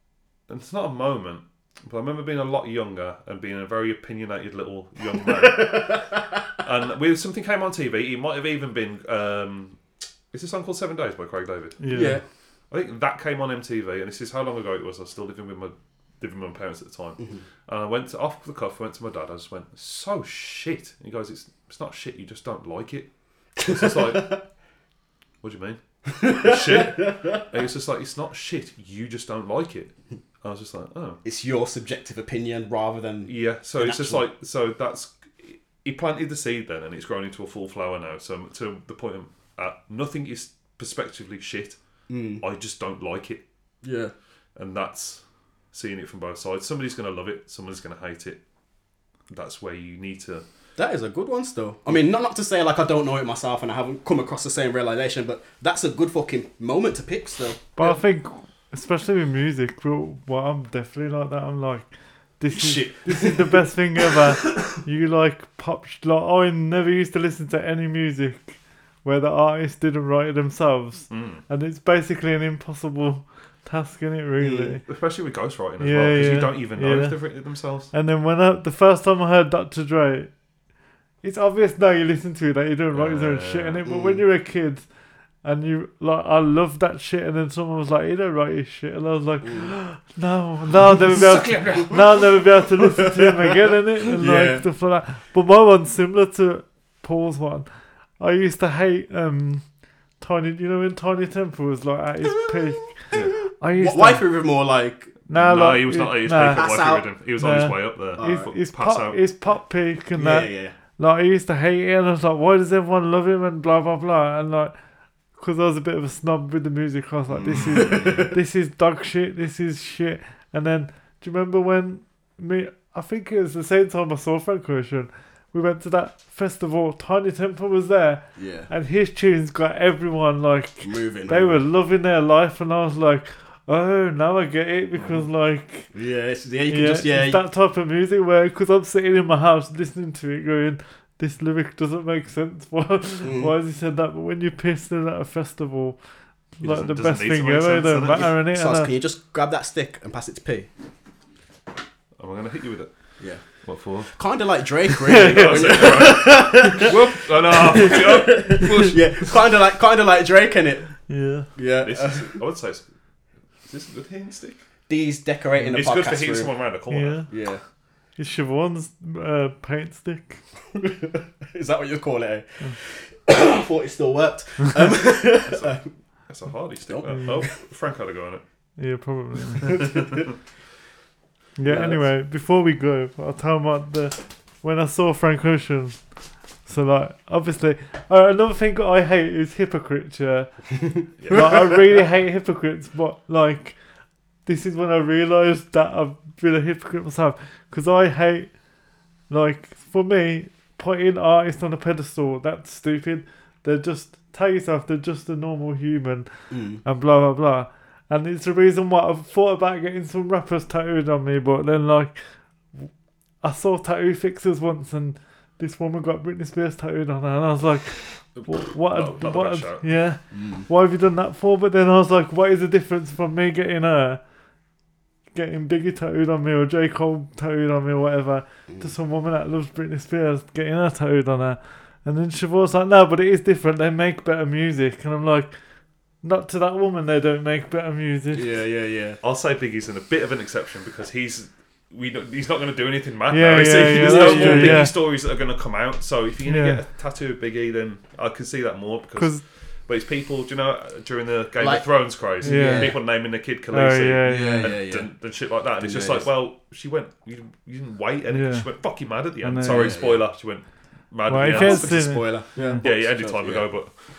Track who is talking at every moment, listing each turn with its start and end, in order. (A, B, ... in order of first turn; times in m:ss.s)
0:00.5-0:09.8 A
0:05.3-0:06.2 B
0:10.3-0:12.1 A
0:11.8-0:12.2 C
0:11.9-0:12.2 B
0:12.7-0:24.4 A
0:23.6-0:24.4 B
0:25.4-0:29.9 A
0:26.2-0:27.4 B
0:30.4-0:31.2 A
0:31.2-0:34.2 B
0:33.3-0:41.8 A
0:42.1-0:42.4 B
0:42.4-0:43.4 A
0:43.8-0:44.1 B
0:44.6-0:48.4 A
0:49.3-0:50.4 A
0:50.8-0:58.0 B
0:57.8-1:14.8 C
1:02.5-1:03.6 B
1:11.1-1:11.4 A
1:14.4-1:14.8 B
1:14.9-1:17.9 A
1:15.8-1:17.2 C
1:17.9-1:20.3 C
1:21.2-1:24.8 C
1:22.9-1:23.8 A
1:23.8-1:24.2 B
1:25.4-1:37.7 C
1:29.4-1:29.7 B
1:31.0-1:32.4 A
1:33.0-1:33.3 B
1:34.1-1:34.6 B
1:38.2-1:43.0 C
1:43.1-1:45.1 B
1:43.6-1:44.2 C
1:45.3-1:46.7 C
1:45.3-1:49.2 A
1:46.4-1:47.1 B
1:47.4-1:54.7 C
1:48.2-1:48.5 B
1:50.2-1:50.7 B
1:55.3-2:15.9 C
1:57.3-1:58.4 B
1:57.5-1:58.2 A
2:08.4-2:08.7 B
2:10.8-2:11.6 B
2:15.0-2:15.2 B
2:15.9-2:17.4 B
2:16.7-2:26.0 C
2:23.2-2:23.5 B
2:26.6-2:28.9 C
2:26.6-2:28.3 A
2:28.3-2:30.7 B
2:32.2-2:32.9 A
2:33.6-2:34.2 A
2:34.1-2:41.0 B
2:35.0-2:36.8 C
2:35.1-2:39.2 A
2:41.1-2:41.5 C
2:41.5-2:42.4 B
2:41.8-2:42.8 A
2:43.6-2:44.6 A
2:44.9-2:46.5 B
2:45.7-2:47.3 A
2:46.9-2:47.3 C
2:47.3-2:47.6 B
2:48.2-2:50.4 C
2:50.7-2:55.8 B
2:55.4-2:58.4 A
2:56.9-2:57.5 B
2:57.1-2:57.4 C
2:58.8-2:59.8 C
2:59.6-3:00.3 A
2:59.7-3:00.2 B
3:01.6-3:06.1 C
3:01.7-3:02.0 B
3:06.6-3:13.8 C
3:11.2-3:11.8 A
3:14.4-3:18.6 C
3:19.3-3:32.2 C
3:26.5-3:26.8 B
3:32.7-3:44.2 C
3:38.3-3:40.0 A
3:40.3-3:40.7 B
3:45.3-3:55.6 C
3:56.2-3:58.6 C
3:58.3-3:59.2 B
3:59.2-4:23.9 A
4:03.3-4:04.9 C
4:03.9-4:04.9 B
4:06.4-4:06.8 C
4:09.2-4:09.4 C
4:11.6-4:13.0 B
4:12.4-4:13.1 C
4:13.7-4:14.7 C
4:14.2-4:15.1 B
4:15.8-4:16.3 B
4:18.3-4:18.7 C
4:19.4-4:20.0 C
4:19.6-4:20.2 B
4:21.3-4:22.8 C
4:21.4-4:23.8 B